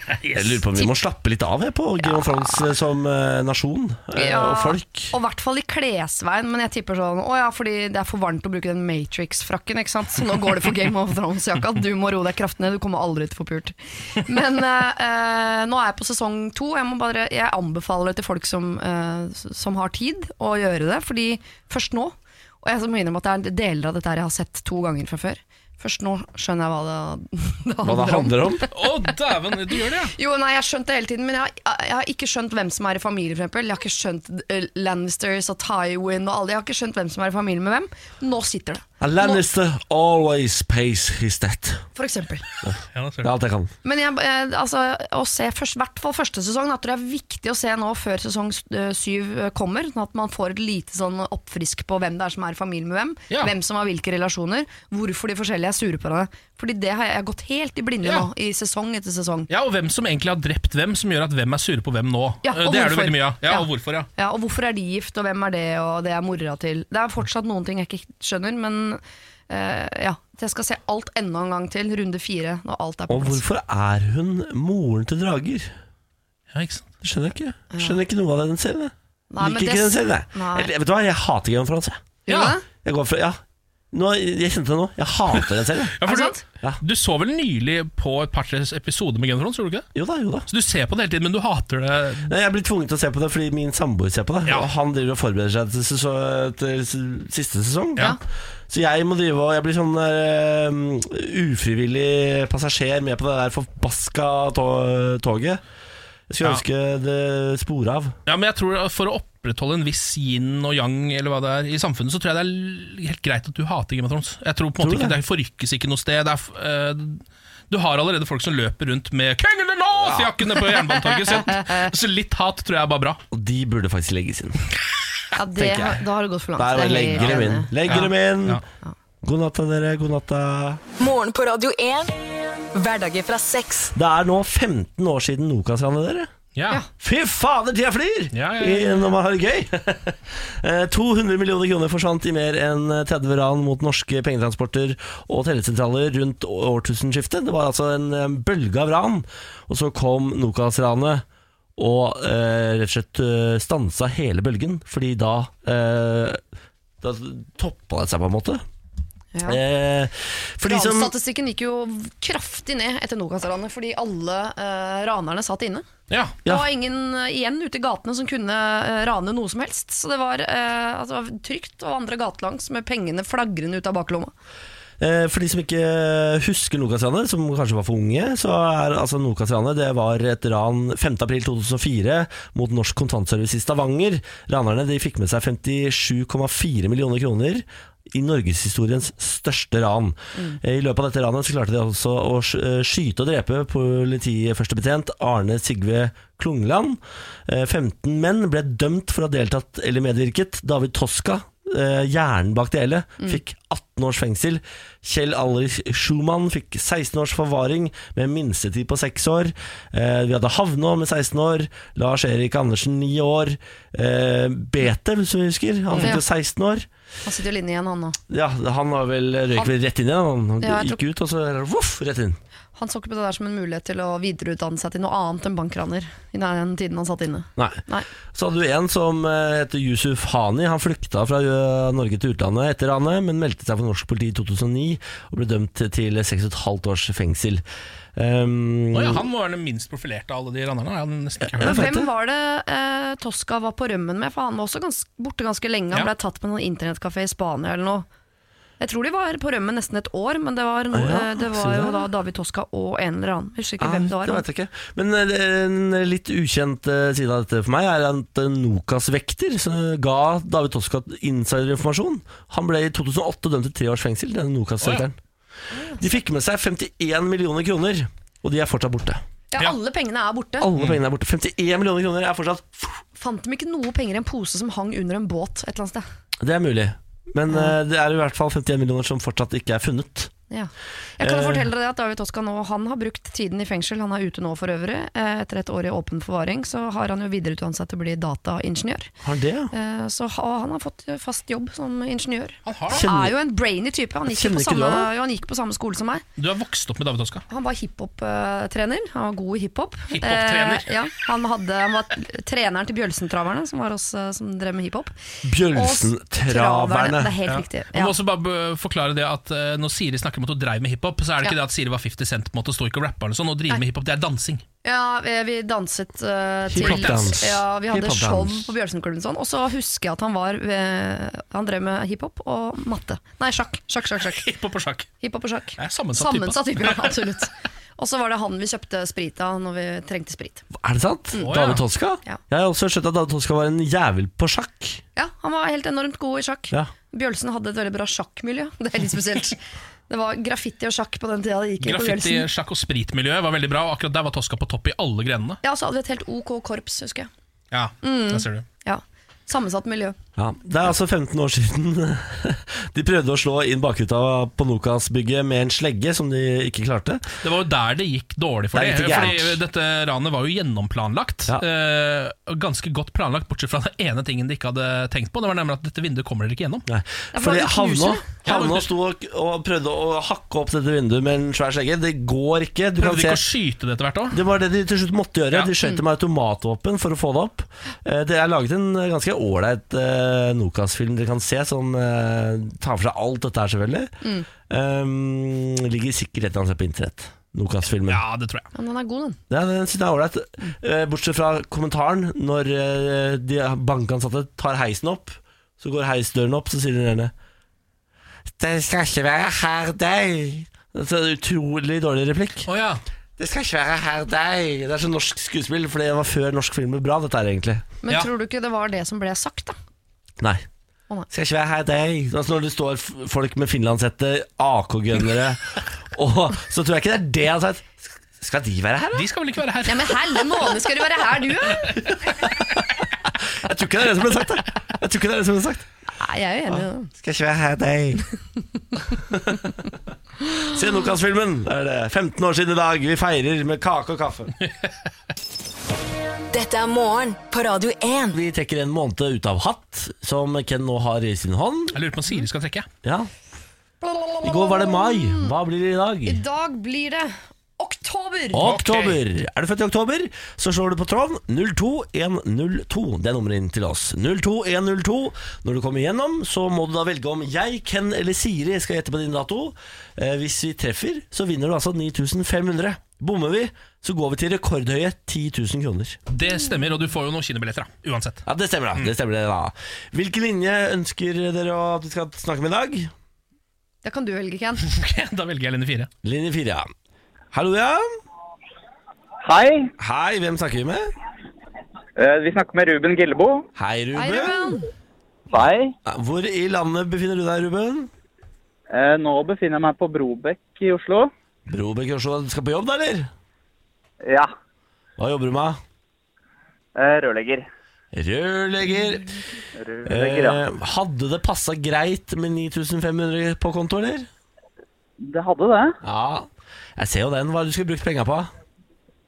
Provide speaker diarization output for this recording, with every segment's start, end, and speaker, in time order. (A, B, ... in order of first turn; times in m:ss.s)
0:00.3-0:05.1 A
0:04.2-0:28.9 B
0:27.8-0:28.6 A
0:28.7-0:30.1 C
0:30.1-0:39.4 B
0:39.0-0:41.8 A
0:42.0-0:42.4 B
0:42.6-0:43.7 A
0:42.9-0:43.3 C
0:43.8-0:59.5 B
0:58.0-0:58.3 C
0:59.5-1:04.1 C
1:02.4-1:13.4 B
1:13.1-1:15.7 A
1:16.5-1:16.9 C
1:17.0-1:22.0 A
1:17.7-1:18.0 B
1:19.3-1:20.7 B
1:22.2-1:22.6 B
1:22.3-1:22.6 C
1:22.8-1:23.4 A
1:23.9-1:26.0 A
1:25.3-1:29.9 C
1:26.0-1:26.4 B
1:29.9-1:30.4 A
1:30.5-1:32.3 C
1:32.2-1:38.2 A
1:38.7-1:45.6 A
1:46.3-1:48.2 A
1:48.3-2:03.2 C
1:54.8-1:55.2 A
2:00.0-2:00.3 A
2:01.3-2:01.9 B
2:03.3-2:04.6 A
2:05.3-2:08.0 B
2:05.6-2:06.0 A
2:06.6-2:08.6 A
2:07.2-2:08.6 C
2:09.2-2:10.8 A
2:11.0-2:12.2 D
2:12.7-2:13.9 D
2:13.9-2:16.3 A
2:16.5-2:16.8 C
2:17.0-2:31.2 A
2:18.3-2:19.0 C
2:31.8-2:36.4 A
2:37.0-2:38.6 A
2:39.3-2:39.6 B
2:39.4-2:41.1 A
2:40.6-2:45.8 B
2:46.1-2:46.4 C
2:46.4-2:54.3 B
2:55.0-3:36.9 A
3:10.3-3:10.6 B
3:35.9-3:36.2 B
3:37.2-3:38.2 B
3:38.3-3:42.4 A
3:40.6-3:41.0 B
3:42.8-3:48.1 B
3:48.3-3:57.6 A
3:58.2-3:59.2 A
3:58.9-4:01.9 C
4:01.4-4:02.1 A
4:01.6-4:08.1 B
4:08.8-4:14.4 B
4:10.9-4:12.1 A
4:13.8-4:25.2 A
4:25.7-4:26.0 B
4:26.0-4:29.2 A
4:29.5-4:30.7 B
4:30.6-4:33.0 A
4:33.2-4:36.0 B
4:36.4-4:40.3 A
4:40.5-4:49.1 B
4:41.2-4:41.6 A
4:49.2-4:49.7 A
4:49.7-4:56.2 B
4:52.6-4:53.0 C
4:52.9-4:53.3 A
4:54.3-4:55.1 A
4:56.4-4:57.4 C
4:57.5-5:05.2 B
5:00.1-5:00.9 C
5:05.4-5:07.4 A
5:05.7-5:08.1 B
5:07.5-5:14.6 C
5:14.8-5:24.4 B
5:16.7-5:18.7 A
5:16.8-5:17.4 C
5:24.2-5:25.1 C
5:25.2-5:30.6 B
5:25.8-5:27.3 C
5:30.7-5:35.0 A
5:31.3-5:31.6 B
5:31.4-5:31.8 C
5:35.2-5:42.4 B
5:41.8-5:45.6 C
5:45.6-5:47.3 B
5:47.7-5:48.6 C
5:48.0-5:50.2 B
5:50.4-5:57.3 A
5:57.4-6:06.8 C
5:58.7-5:59.6 A
6:06.9-6:13.4 A
6:07.3-6:08.4 B
6:08.4-6:08.9 C
6:13.0-6:14.4 C
6:14.3-6:24.2 A
6:24.7-6:28.2 A
6:28.1-6:28.7 C
6:28.7-6:29.4 B
6:29.5-6:37.3 A
6:38.6-6:42.7 A
6:42.7-6:43.0 C
6:43.4-6:47.9 A
6:48.0-6:49.8 B
6:50.4-6:50.6 A
6:51.3-6:59.3 A
6:59.1-7:00.7 C
6:59.8-7:02.0 B
7:01.9-7:02.5 C
7:02.3-7:02.6 A
7:03.4-7:05.8 A
7:06.2-7:07.1 B
7:07.1-7:08.2 A
7:09.3-7:09.7 A
7:10.7-7:14.5 A
7:16.5-7:18.4 D
7:18.3-7:22.0 A
7:21.9-7:22.9 C
7:23.0-7:23.3 A
7:24.0-7:25.5 B
7:24.4-7:26.4 A
7:26.2-7:28.7 B
7:28.5-7:46.2 A
7:28.6-7:29.2 C
7:46.3-7:48.4 C
7:48.4-7:53.1 A
7:54.0-7:54.8 B
7:54.8-7:56.1 C
7:56.2-7:56.9 A
7:57.5-7:58.1 A
7:59.4-7:59.9 E
8:00.0-8:01.1 A
8:02.2-8:03.7 E
8:03.8-8:04.8 A
8:04.1-8:04.9 B
8:05.5-8:05.9 E
8:06.0-8:08.1 A
8:08.9-8:11.3 E
8:11.7-8:13.3 A
8:14.2-8:14.5 E
8:15.2-8:15.8 A
8:16.9-8:17.7 E
8:18.1-8:19.4 A
8:19.8-8:20.6 E
8:20.0-8:24.3 A
8:25.2-8:26.0 E
8:26.0-8:28.5 A